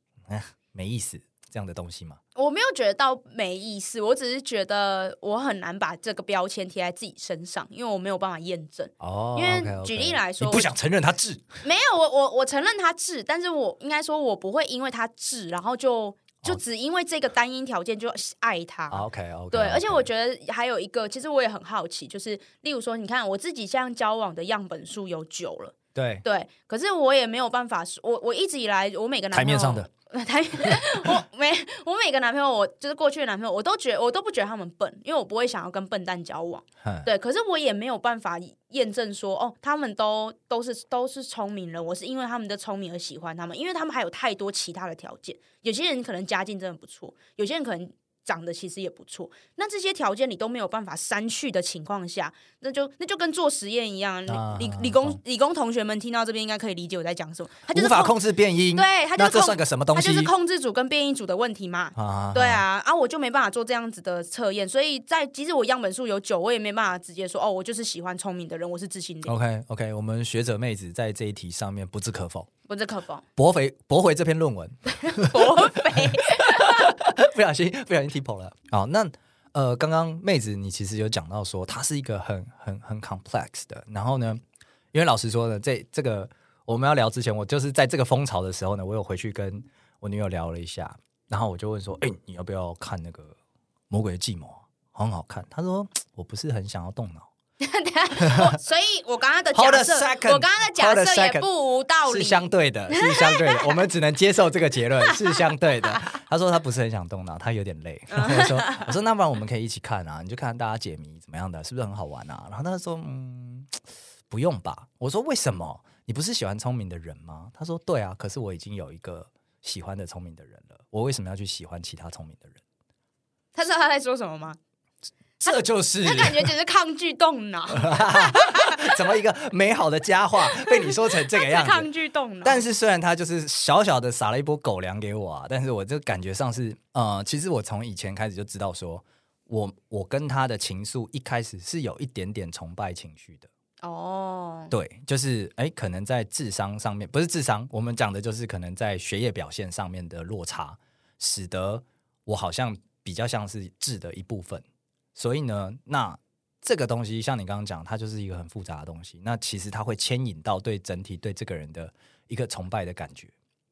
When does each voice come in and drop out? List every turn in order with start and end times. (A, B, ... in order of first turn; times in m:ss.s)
0:00.3-0:02.2 A
0:02.3-0:10.7 B
0:09.0-0:11.4 A
0:11.6-0:58.2 B
0:18.9-0:20.0 A
0:25.9-0:26.2 A
0:29.3-0:29.9 A
0:30.6-0:31.0 A
0:54.3-0:55.2 A
0:57.7-1:00.3 A
0:58.7-1:09.4 B
1:01.9-1:02.6 A
1:09.2-1:12.5 A
1:12.7-1:13.2 B
1:13.4-1:24.4 A
1:15.0-1:17.0 B
1:24.9-1:33.4 A
1:33.9-1:37.3 A
1:37.6-1:43.8 B
1:38.2-1:38.6 A
1:39.5-1:41.4 A
1:42.1-1:53.7 A
1:45.0-1:46.0 B
1:48.1-1:48.9 B
1:54.3-2:02.6 A
2:03.5-2:04.6 B
2:05.4-2:06.5 A
2:05.5-2:08.9 B
2:07.7-2:11.9 A
2:10.5-2:12.6 B
2:12.4-2:23.5 A
2:23.8-2:24.7 B
2:24.7-2:34.6 A
2:35.1-2:43.3 A